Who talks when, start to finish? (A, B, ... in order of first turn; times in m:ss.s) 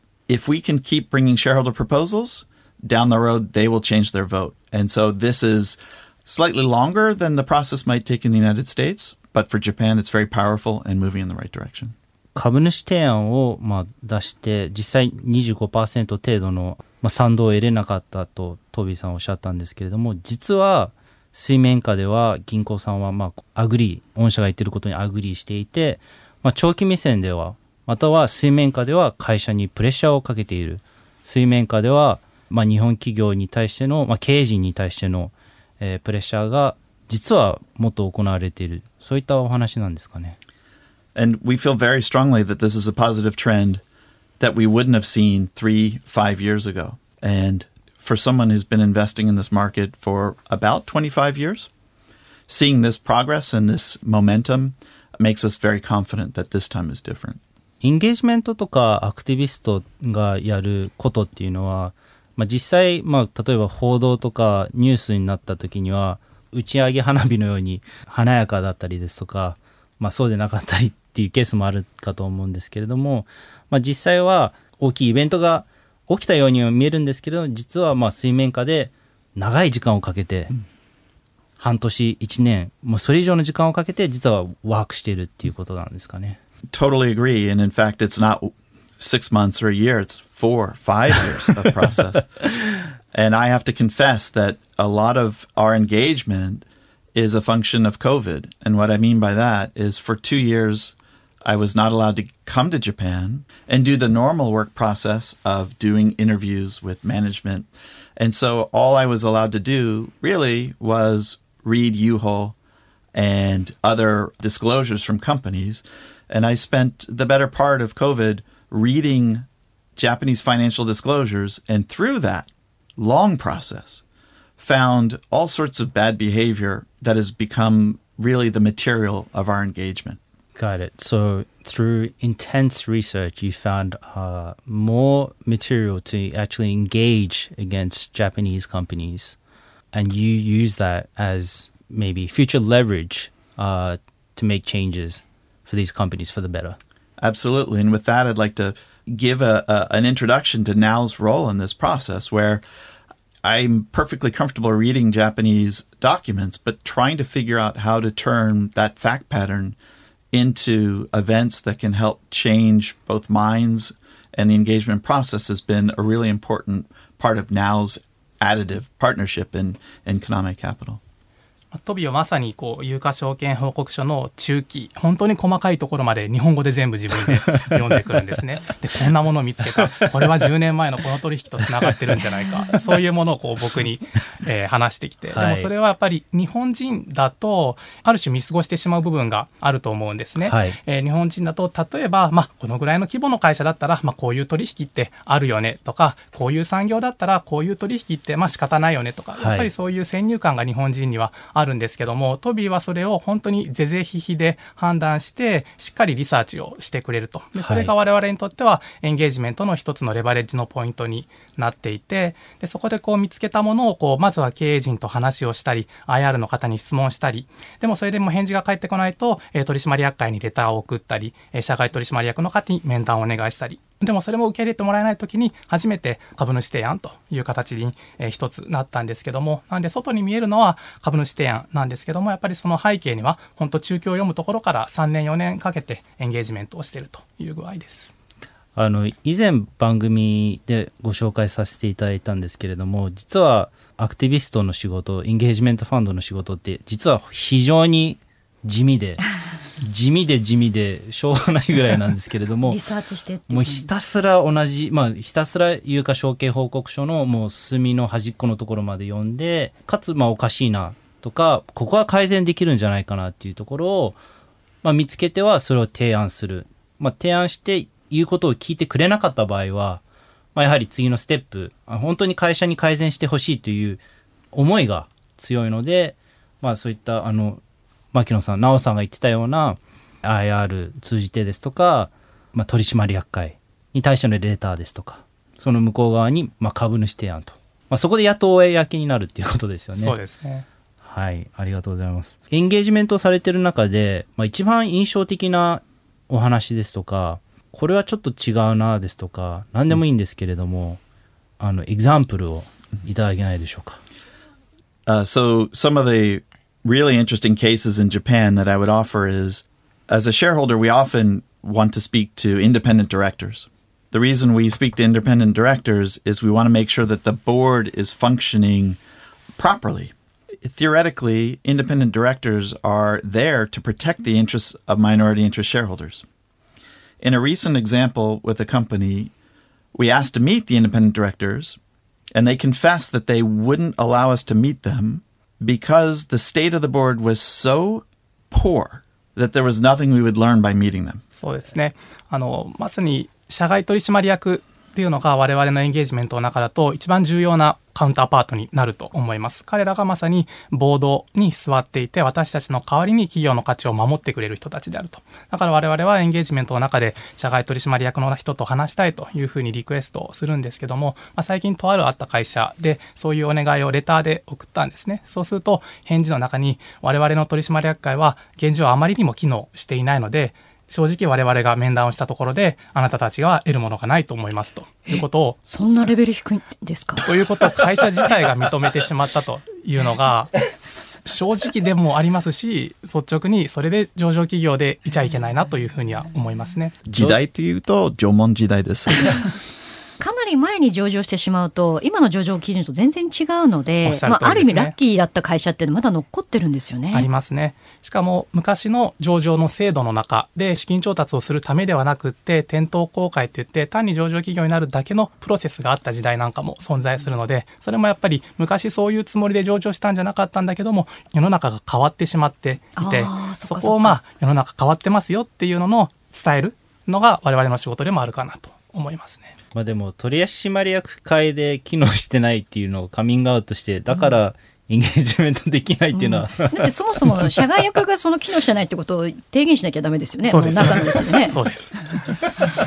0:00.3-0:11.9 A
0:12.4-0:40.4 B
0:41.1-0:43.8 A
0:44.4-0:51.7 A
0:52.5-0:57.4 A
0:57.8-1:20.5 B
1:21.6-1:26.4 B
1:26.7-1:32.4 A
1:33.1-1:52.5 A
1:53.1-2:04.0 A
2:04.6-2:10.2 A
2:10.6-2:19.4 B
2:19.9-2:26.8 B
2:27.2-2:32.6 A
2:33.4-2:39.8 A
2:40.3-2:51.0 A
2:51.7-3:58.1 C
3:05.3-3:05.7 B
3:10.4-3:10.8 B
3:19.4-3:19.7 B
3:27.6-3:27.9 B
3:58.8-4:09.2 B
4:09.8-4:12.8 B
4:12.6-4:13.9 D
4:13.5-4:24.2 B
4:24.8-4:30.0 B
4:30.5-4:34.0 B
4:34.5-4:37.6 B
4:38.1-4:50.2 B
4:50.0-4:50.6 C
4:51.0-5:01.0 B
5:01.6-5:04.0 B
5:05.1-5:19.0 A
5:19.6-5:26.2 A
5:27.2-5:29.3 A
5:29.9-5:31.8 A
5:32.4-5:41.2 A
5:41.4-6:15.6 C
6:15.7-6:17.3 D
6:17.2-6:27.0 C
6:27.1-6:29.5 A
6:30.2-6:37.3 D
6:34.0-6:34.9 C
6:37.1-6:59.5 C
6:53.0-6:54.1 D
6:59.7-7:07.4 B
7:06.1-7:11.6 D
7:10.5-7:12.0 C